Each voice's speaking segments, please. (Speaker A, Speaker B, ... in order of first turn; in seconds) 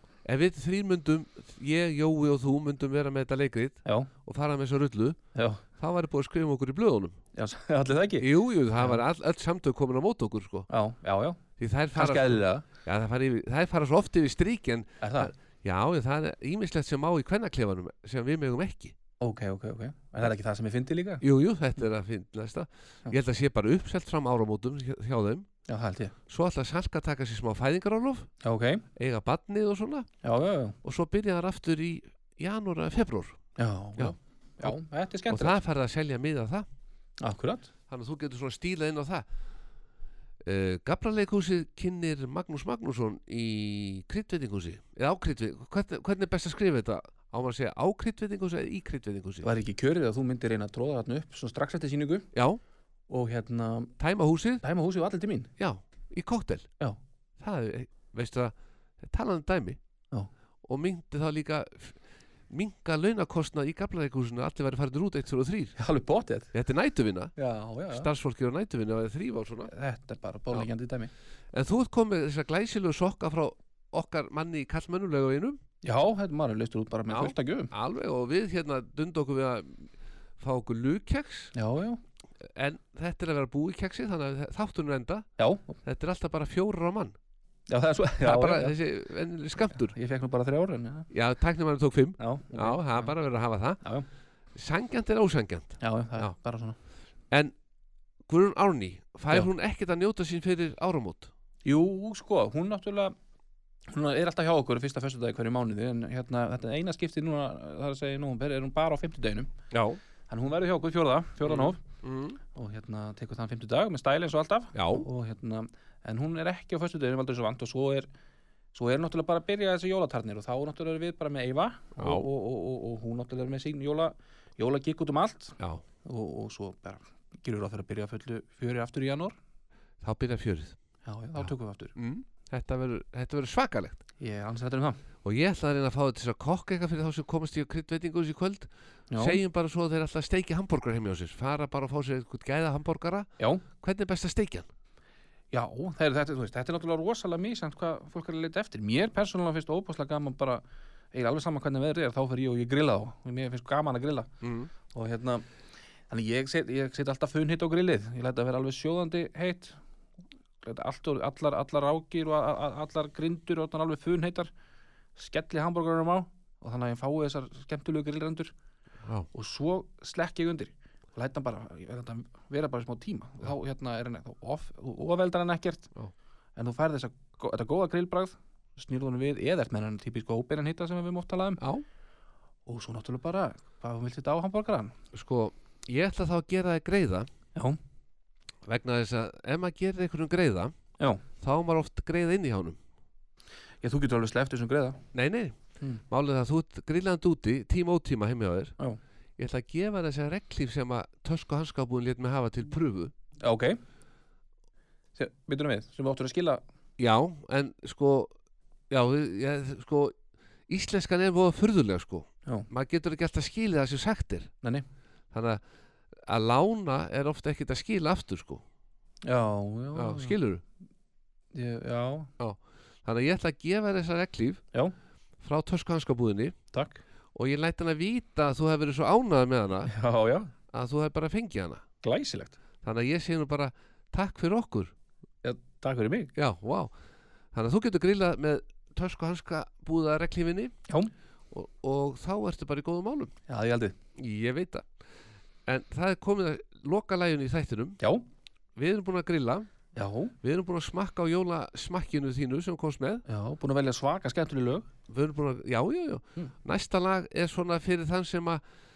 Speaker A: 0.2-5.2, 5.8-7.2, 8.2-10.7, 11.6-18.9, 21.2-25.5, 26.3-28.3, 28.9-30.1, 30.8-33.4, 34.0-34.8, 35.3-36.7, 37.9-39.2, 40.4-49.5, 52.3-52.6, 54.0-54.6, 55.6-56.7, 57.4-59.8, 60.6-62.0, 62.5-65.7, 66.5-67.3, 67.9-69.7, 71.5-75.6, 77.1-81.5, 82.5-85.3, 85.8-87.1, 88.2-89.9, 91.1-93.8, 94.5-96.3, 98.3-101.3, 109.7-110.0, 111.4-112.4, 114.7-115.1, 122.0-122.2, 130.0-130.7, 131.9-134.0, 135.2-144.7, 154.4-154.7, 181.6-181.8, 185.1-187.3, 188.7-190.7, 191.4-192.8, 195.1-195.6, 196.1-198.8, 199.4-203.1, 207.0-208.3, 208.9-210.1, 210.7-214.5, 215.3-215.6, 216.2-218.6, 219.9-220.6, 222.4-224.6, 225.4-226.6, 227.3-229.9, 230.7-231.8, 232.8-234.9, 236.3-236.9, 237.5-240.7, 241.5-243.3, 244.2-244.9, 245.7-248.0, 248.8-249.7, 250.4-253.2, 255.1-258.6
Speaker B: 5.3-5.6, 7.3-9.0, 10.7-11.4, 11.9-12.6, 15.0-15.3, 19.2-21.2, 25.7-26.1, 28.4-28.8, 30.2-30.8, 33.6-35.6, 37.2-37.7, 49.4-52.3, 53.1-53.9, 54.6-55.5, 65.8-66.5, 67.4-68.1, 69.7-71.1, 75.8-77.7, 81.5-82.0, 85.4-85.8, 87.7-88.7, 89.7-91.1, 92.2-93.1, 93.8-94.0, 95.8-96.8, 101.6-103.1, 103.9-109.5, 110.3-111.8, 112.5-118.1, 118.7-129.3, 131.0-131.9, 134.2-135.0, 139.1-139.4, 143.4-143.6, 145.5-154.3, 154.9-155.4, 156.1-159.8, 160.6-164.5, 165.2-168.5, 169.3-175.9, 176.6-181.6, 182.7-184.9, 193.8-195.0, 203.4-203.8, 205.2-206.6, 219.2-220.4, 221.5-222.3, 226.7-227.0, 229.9-230.5, 232.0-232.5, 235.4-236.3, 243.5-243.9, 249.9-250.3, 253.3-254.9